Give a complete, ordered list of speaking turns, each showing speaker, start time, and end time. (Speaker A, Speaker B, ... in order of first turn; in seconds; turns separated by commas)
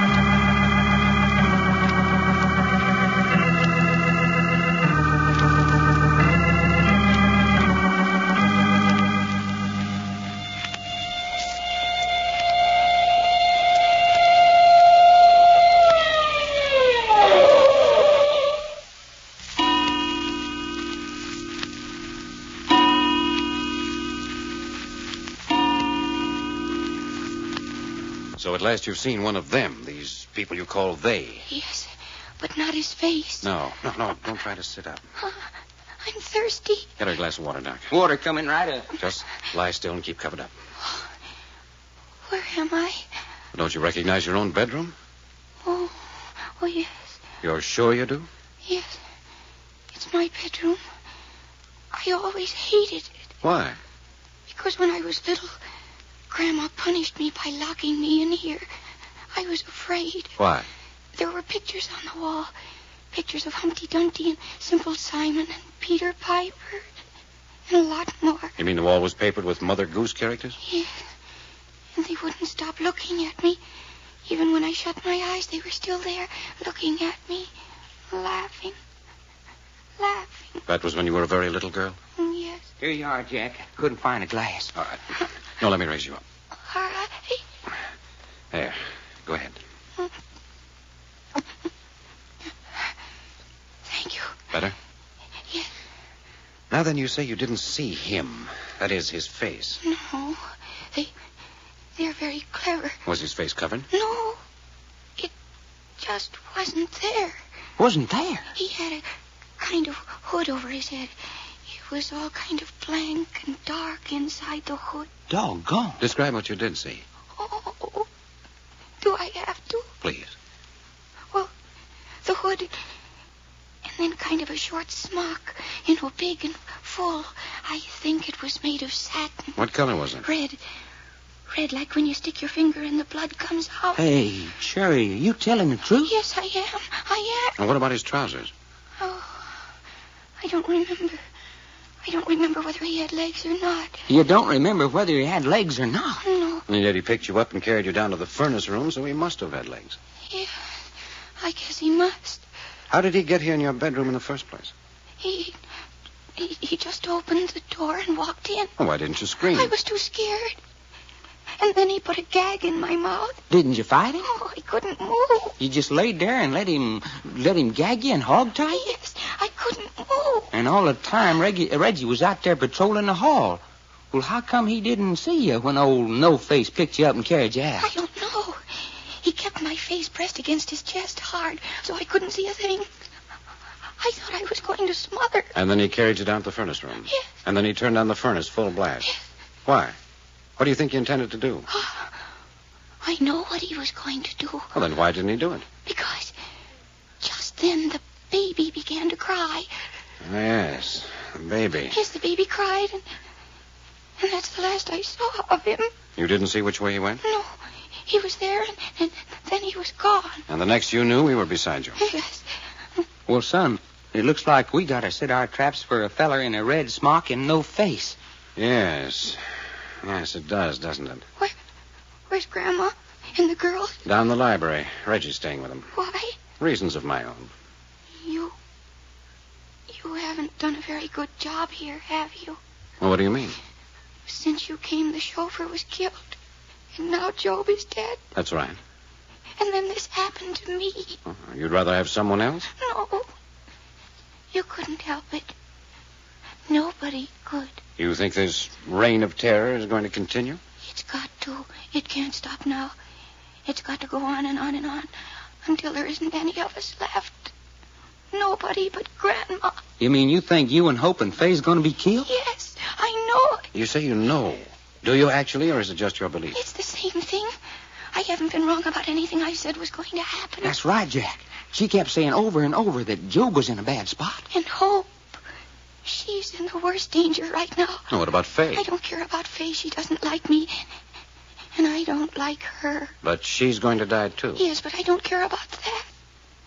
Speaker A: 28.4-31.5, Speaker B: 31.5-33.5, Speaker A: 33.4-35.0, Speaker B: 35.2-35.5, Speaker B: 36.0-36.9, Speaker A: 37.0-37.9, Speaker C: 37.9-38.9, Speaker A: 39.0-40.5, Speaker B: 40.8-41.1, Speaker B: 42.3-43.0, Speaker A: 43.5-44.9, Speaker B: 45.6-47.2, Speaker A: 47.4-48.3, Speaker B: 48.6-49.0, Speaker B: 49.9-50.8, Speaker B: 51.9-53.2, Speaker A: 53.4-53.8, Speaker B: 54.5-55.6, Speaker B: 56.3-58.7, Speaker B: 59.3-60.3, Speaker A: 60.4-60.7, Speaker B: 61.1-62.5, Speaker B: 63.1-66.8, Speaker B: 67.7-68.5, Speaker A: 68.6-70.6, Speaker B: 70.6-71.0, Speaker B: 71.9-73.6, Speaker B: 74.2-77.5, Speaker B: 78.1-78.8, Speaker B: 80.0-80.6, Speaker A: 80.7-82.0, Speaker B: 82.2-82.6, Speaker C: 82.8-84.7, Speaker A: 84.7-86.2, Speaker B: 86.6-87.4, Speaker A: 88.5-89.6, Speaker B: 93.9-94.3, Speaker A: 96.7-99.8, Speaker B: 99.8-101.1, Speaker B: 102.0-103.0, Speaker A: 103.0-103.9, Speaker B: 103.9-104.4, Speaker B: 106.0-107.4, Speaker C: 107.8-108.5, Speaker B: 108.5-109.0, Speaker B: 109.6-111.1, Speaker B: 111.6-115.1, Speaker C: 115.3-116.0, Speaker A: 116.0-117.0, Speaker B: 117.3-118.1, Speaker B: 119.0-119.9, Speaker A: 120.0-120.3, Speaker B: 122.2-122.7, Speaker B: 123.8-129.6, Speaker A: 129.6-130.2, Speaker B: 130.2-130.6, Speaker B: 131.5-134.0, Speaker C: 133.9-136.1, Speaker B: 136.0-137.6, Speaker A: 137.6-138.5, Speaker B: 139.0-139.6, Speaker B: 140.4-141.2, Speaker B: 142.0-144.0, Speaker C: 144.1-146.2, Speaker B: 146.2-146.6, Speaker A: 146.7-150.0, Speaker B: 150.3-150.7, Speaker B: 151.4-152.4, Speaker A: 152.9-154.7, Speaker B: 155.2-155.6, Speaker B: 156.4-158.7, Speaker A: 158.8-159.7, Speaker B: 159.5-160.6, Speaker B: 161.6-163.4, Speaker C: 163.5-164.3, Speaker B: 164.2-165.6, Speaker C: 165.6-168.9, Speaker B: 168.7-170.5, Speaker C: 170.5-177.9, Speaker B: 177.8-182.9, Speaker B: 184.0-185.5, Speaker A: 185.5-189.1, Speaker A: 189.7-190.0, Speaker A: 190.6-191.7, Speaker B: 191.7-192.2, Speaker B: 193.0-194.7, Speaker A: 194.7-195.7, Speaker B: 195.8-196.3, Speaker B: 197.2-199.7, Speaker A: 200.2-202.0, Speaker B: 201.9-203.0, Speaker B: 204.2-205.9, Speaker A: 206.2-207.2, Speaker B: 207.2-210.4, Speaker A: 210.5-212.0, Speaker B: 212.0-213.0, Speaker C: 213.3-218.2, Speaker A: 218.6-219.4, Speaker A: 220.0-221.2, Speaker B: 222.3-224.0, Speaker A: 224.0-225.9, Speaker B: 225.9-226.4, Speaker A: 226.6-227.5, Speaker B: 228.2-228.5, Speaker B: 229.9-232.6, Speaker A: 233.0-233.6, Speaker B: 234.3-236.4, Speaker B: 236.9-238.2, Speaker A: 238.3-238.8, Speaker B: 239.6-241.2, Speaker A: 241.2-242.7, Speaker B: 242.8-243.3, Speaker B: 244.5-245.5, Speaker B: 246.7-247.8, Speaker A: 248.0-250.6, Speaker B: 250.8-252.9, Speaker B: 253.7-255.1, Speaker B: 255.6-257.5, Speaker B: 258.3-259.8, Speaker C: 260.0-262.3, Speaker B: 262.3-263.6, Speaker A: 263.7-266.6, Speaker B: 266.5-267.5, Speaker B: 268.1-270.7, Speaker C: 270.6-274.4, Speaker B: 274.5-275.1, Speaker B: 276.0-278.1, Speaker A: 278.1-278.9, Speaker B: 278.7-280.8, Speaker B: 281.7-283.1, Speaker A: 283.2-284.6, Speaker B: 284.6-286.1